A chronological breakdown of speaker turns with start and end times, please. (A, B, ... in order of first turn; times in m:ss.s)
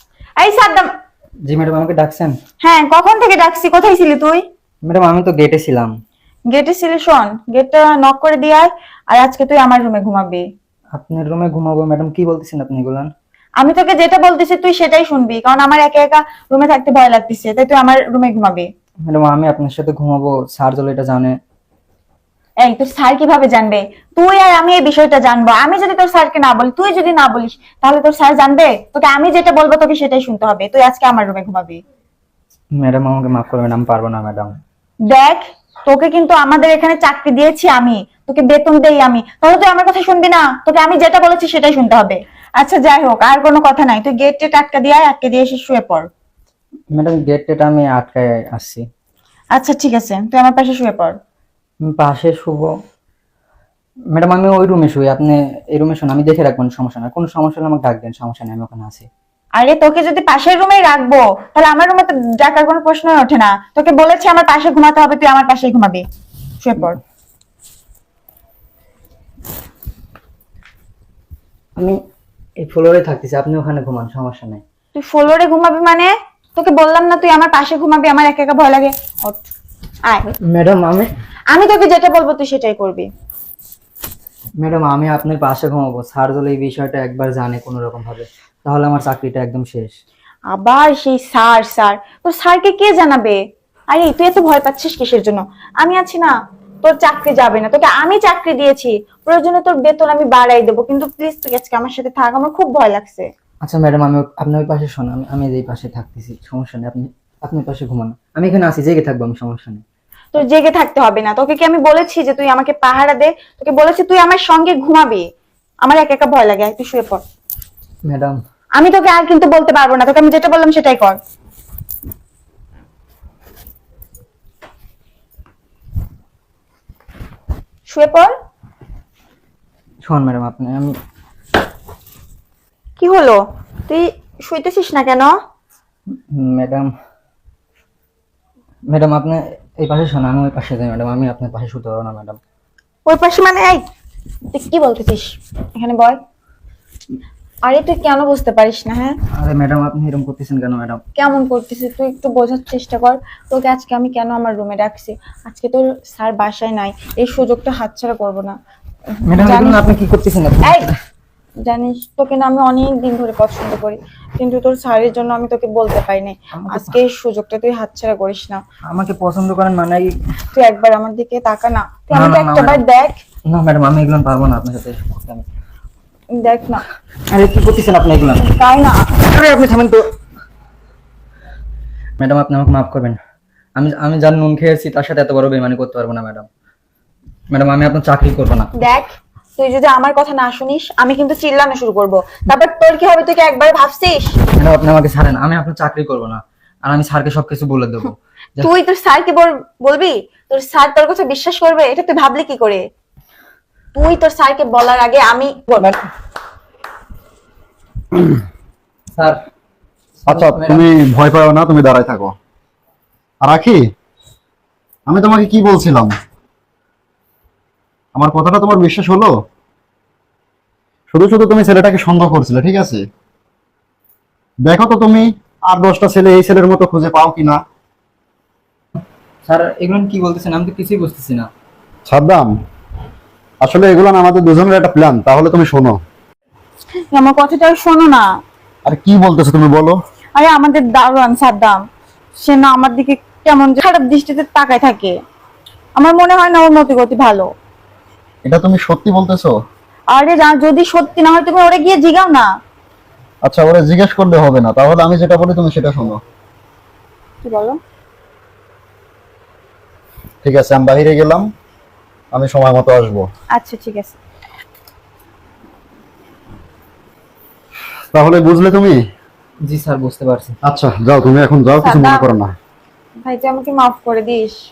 0:00.4-0:00.9 A
0:01.4-0:02.4 B
0:02.6-0:04.4 A
0:04.8-0:05.9 B
0:06.5-0:10.4 A
0:10.9-0:13.1 B
0:13.6-0:18.7 A
0:19.1-0:21.3 B
0:22.6-0:31.8 A
0:32.8-0:34.5 B
0:35.1-0:46.1 A
0:46.9-0:48.8 B
0:49.5-0:51.2 A
0:51.9-0:52.7 B
0:54.1-0:59.1 B
0:59.6-1:06.0 A
1:06.6-1:07.0 A
1:12.6-1:14.6 B
1:14.9-1:19.4 A
1:20.4-1:21.1 B
1:21.5-1:23.1 A
1:24.6-1:29.9 B
1:30.5-1:33.4 A
1:33.9-1:43.3 A
1:43.6-1:49.8 B
1:50.3-1:55.2 A
1:55.8-1:57.2 A
1:58.0-1:58.4 B
1:58.8-2:01.2 A
2:07.9-2:08.3 A
2:10.0-2:11.0 B
2:13.0-2:15.4 A
2:16.1-2:16.9 B
2:18.9-2:22.4 B
2:23.0-2:23.8 A
2:24.5-2:26.2 A
2:27.6-2:29.2 A
2:29.3-2:31.0 B
2:31.1-2:38.6 A
2:39.2-2:39.8 A
2:39.3-2:41.0 B
2:40.6-2:40.9 A
2:41.6-2:48.6 A
2:46.5-2:47.0 B
2:48.9-2:50.1 B
2:50.5-2:53.2 A
2:52.1-2:52.8 B
2:53.5-2:55.4 B
2:56.4-2:56.8 A
2:57.3-2:58.5 B
2:58.4-2:59.1 A
2:59.2-3:00.0 B
3:02.2-3:03.2 B
3:03.8-3:06.5 B
3:07.5-3:08.7 B
3:08.8-3:14.4 A
3:14.6-3:18.7 B
3:18.6-3:22.8 A
3:23.9-3:25.9 A
3:30.2-3:30.9 B
3:30.3-3:32.3 C
3:33.4-3:33.8 C
3:35.1-3:36.1 C
3:38.1-3:39.3 C
3:41.1-3:43.0 C
3:44.6-3:47.6 C
3:49.4-3:51.5 B
3:52.1-3:52.5 C
3:53.6-3:56.0 C
3:57.1-3:58.3 A
3:58.8-4:00.0 C
4:00.4-4:01.8 A
4:02.4-4:05.2 A
4:06.0-4:07.5 A
4:08.4-4:09.5 C
4:10.1-4:12.5 A
4:13.4-4:16.2 C
4:17.4-4:17.8 A
4:20.4-4:21.4 C
4:22.3-4:23.2 C
4:23.5-4:24.2 A
4:28.1-4:29.0 C
4:29.6-4:30.5 B
4:30.6-4:32.5 C
4:31.8-4:32.3 A
4:33.2-4:34.6 A